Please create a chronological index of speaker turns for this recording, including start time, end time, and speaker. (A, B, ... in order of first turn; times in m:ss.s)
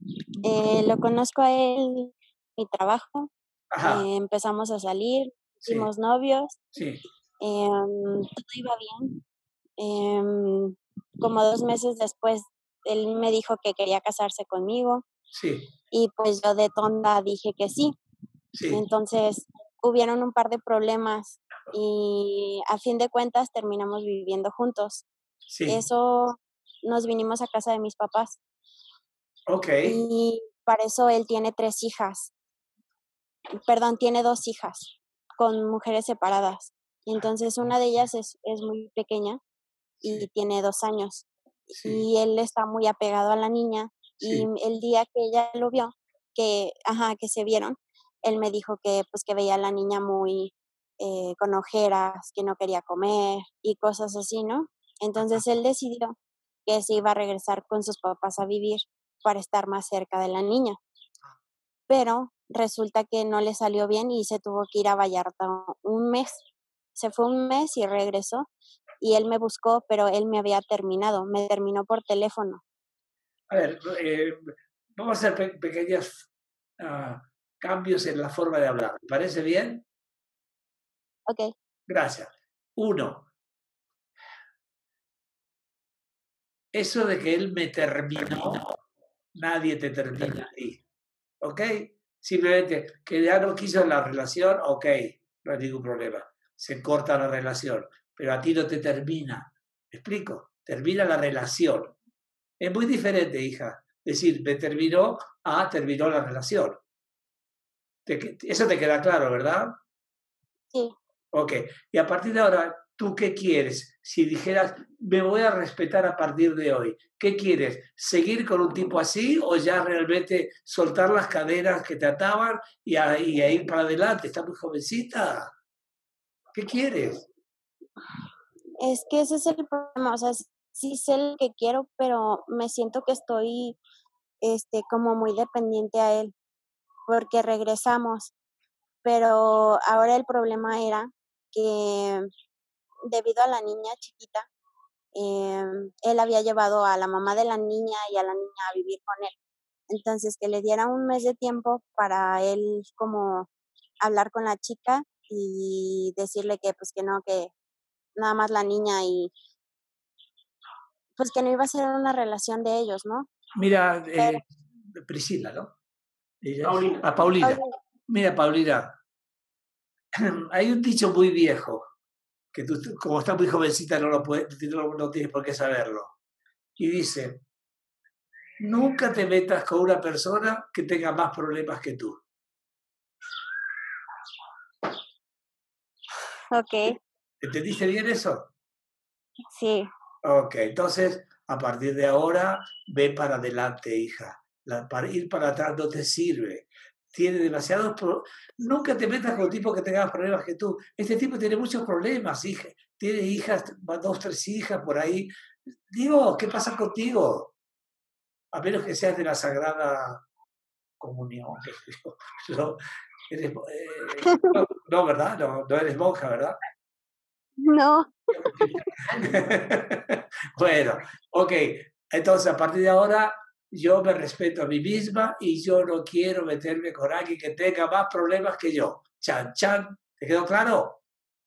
0:00.4-0:03.3 A
0:03.7-0:04.0 B
0:03.8-0:06.6 A
0:05.6-0:05.9 B
0:06.7-0:07.0 B
0:07.4-0:09.2 A
0:09.8-0:15.0 A
0:15.3-0:15.7 B
0:15.9-0:18.0 A
0:18.5-0:18.8 B
0:18.7-0:25.0 A
0:25.5-0:25.8 B
0:25.7-0:28.4 A
0:29.5-0:30.0 B
0:29.8-0:32.3 A
0:33.7-0:39.4 A
0:40.0-0:40.3 B
0:40.0-1:00.8 A
0:44.2-0:44.5 B
0:55.2-0:55.4 B
1:01.9-1:06.4 A
1:06.9-1:08.5 A
1:09.0-1:12.6 A
1:13.5-1:19.8 B
1:21.3-1:21.5 A
1:21.9-1:23.3 B
1:26.7-1:28.6 B
1:29.3-1:30.8 B
1:31.4-1:42.0 B
1:42.6-1:46.8 B
1:48.0-1:49.7 B
1:51.3-2:05.5 B
2:06.5-2:07.3 B
2:08.8-2:13.8 A
2:14.4-2:16.3 A
2:17.1-2:18.3 A
2:19.0-2:22.3 A
2:23.0-2:24.5 A
2:25.1-2:29.4 A
2:29.9-2:33.5 A
2:34.0-2:37.5 A
2:38.2-2:39.3 A
2:41.2-2:43.3 A
2:43.6-2:45.7 B
2:46.4-2:49.0 B
2:47.4-2:47.7 A
2:50.3-2:51.8 B
2:52.5-2:56.2 B
2:56.8-2:57.4 B
2:58.6-3:02.2 B
3:06.5-3:07.0 A
3:07.4-3:08.5 B
3:09.5-3:09.9 A
3:10.2-3:25.3 B
3:25.9-3:27.5 B
3:28.5-3:30.2 B
3:31.0-3:32.8 B
3:33.3-3:36.6 B
3:34.2-3:34.5 A
3:37.6-3:38.6 A
3:38.4-3:51.0 B